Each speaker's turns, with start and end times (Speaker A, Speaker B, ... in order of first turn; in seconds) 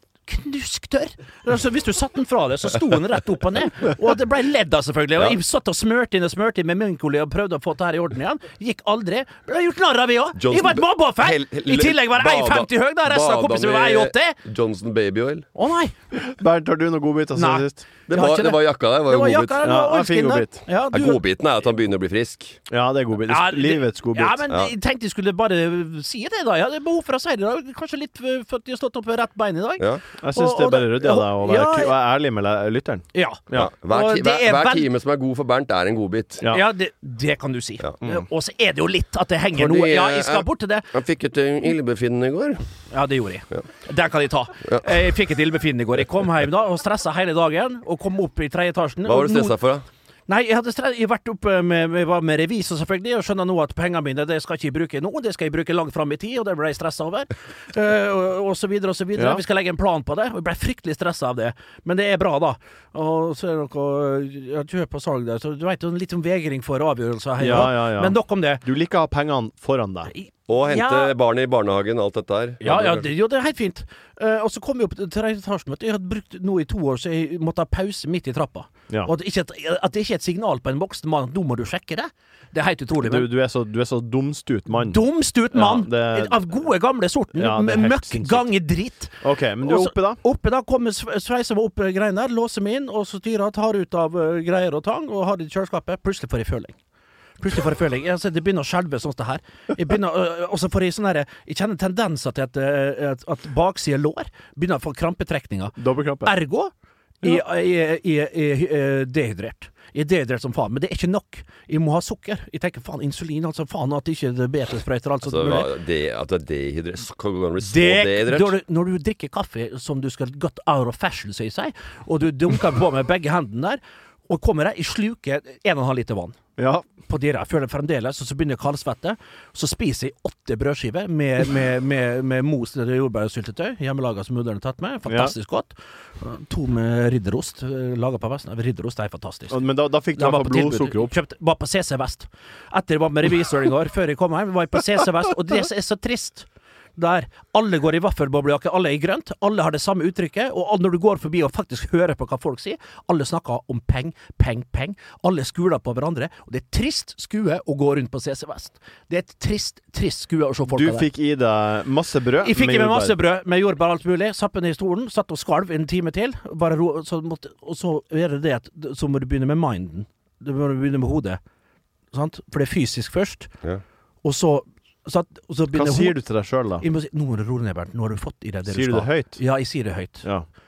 Speaker A: 0.3-14.4, 15.6-15.9, 17.4-21.2, 23.3-31.9, 33.1-34.9, 36.5-40.9, 42.9-49.5, 50.3-68.6, 70.1-71.1, 72.6-83.3, 84.8-96.8, 97.4-106.7, 107.2-115.7, 117.6-126.4, 127.1-139.6, 140.2-146.4, 147.0-161.1, 162.4-171.4, 172.1-173.5, 174.2-176.2, 176.8-180.2
Speaker B: 10.4-15.5, 18.1-19.6, 20.9-22.6, 33.5-36.4, 39.5-42.6, 49.0-49.8, 70.5-73.1, 115.2-118.6
Speaker C: 16.1-17.9, 19.6-20.6, 22.7-24.4, 30.2-33.7, 59.1-59.4, 67.4-70.1, 83.0-86.5, 87.3-88.5, 89.2-90.2, 105.8-106.3, 126.6-126.9, 135.1-135.3, 139.5-141.1, 160.7-163.2, 175.7-176.8, 178.7-179.4